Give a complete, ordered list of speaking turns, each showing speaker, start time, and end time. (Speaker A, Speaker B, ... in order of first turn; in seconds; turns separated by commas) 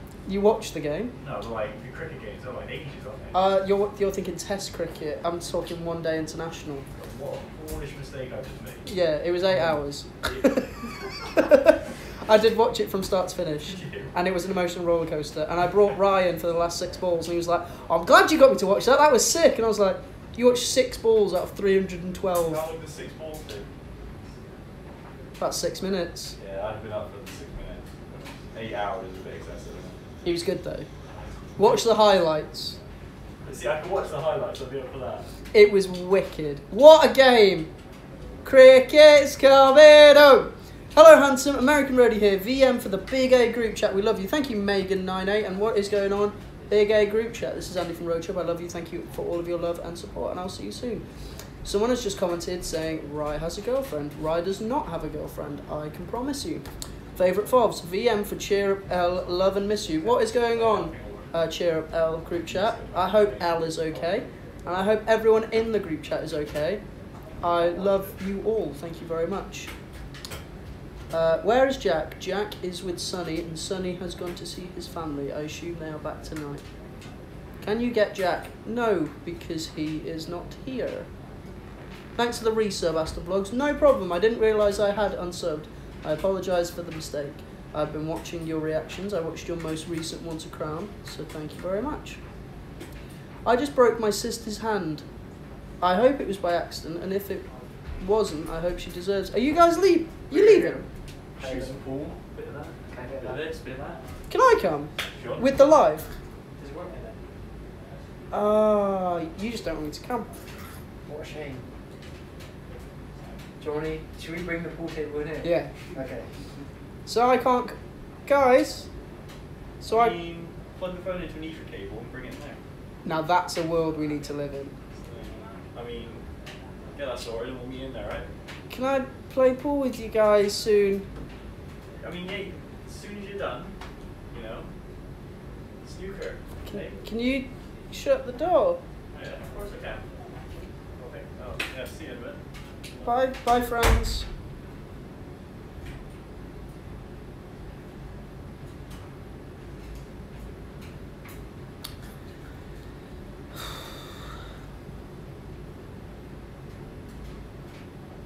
Speaker A: 0.2-1.1, Speaker B: 1.2-3.4, Speaker A: 3.3-6.8, Speaker B: 6.9-8.9, Speaker A: 8.8-22.6, Speaker B: 10.2-10.6, Speaker B: 13.7-14.1, Speaker B: 22.4-23.7, Speaker A: 25.4-26.4, Speaker B: 26.4-30.0, Speaker A: 30.2-30.9, Speaker B: 31.4-31.9, Speaker A: 31.6-32.8, Speaker B: 33.4-35.3, Speaker A: 35.5-37.7, Speaker A: 38.4-51.0, Speaker A: 51.6-56.6, Speaker A: 57.1-66.8, Speaker B: 60.0-61.3, Speaker B: 62.5-63.9, Speaker A: 67.4-69.7, Speaker B: 67.5-68.0, Speaker A: 71.1-76.7, Speaker A: 77.6-81.1, Speaker A: 82.2-92.2, Speaker A: 93.4-95.0, Speaker A: 95.8-97.5, Speaker A: 98.0-100.8, Speaker C: 100.3-100.8, Speaker B: 101.3-104.0, Speaker C: 101.4-101.8, Speaker C: 102.8-103.4, Speaker A: 104.3-106.1, Speaker B: 105.1-105.8, Speaker B: 106.6-107.0, Speaker C: 106.6-107.0, Speaker A: 108.3-110.3, Speaker C: 111.0-111.7, Speaker C: 113.6-116.5, Speaker A: 115.4-115.8, Speaker A: 117.0-118.9, Speaker A: 119.8-120.1, Speaker B: 119.8-122.6, Speaker A: 123.0-124.8, Speaker B: 124.9-126.3, Speaker B: 126.9-128.3, Speaker A: 128.7-131.1, Speaker B: 132.0-133.8, Speaker B: 134.3-134.7, Speaker B: 135.8-137.0, Speaker A: 136.7-138.8, Speaker B: 139.1-140.2, Speaker B: 140.9-143.1, Speaker A: 143.0-144.3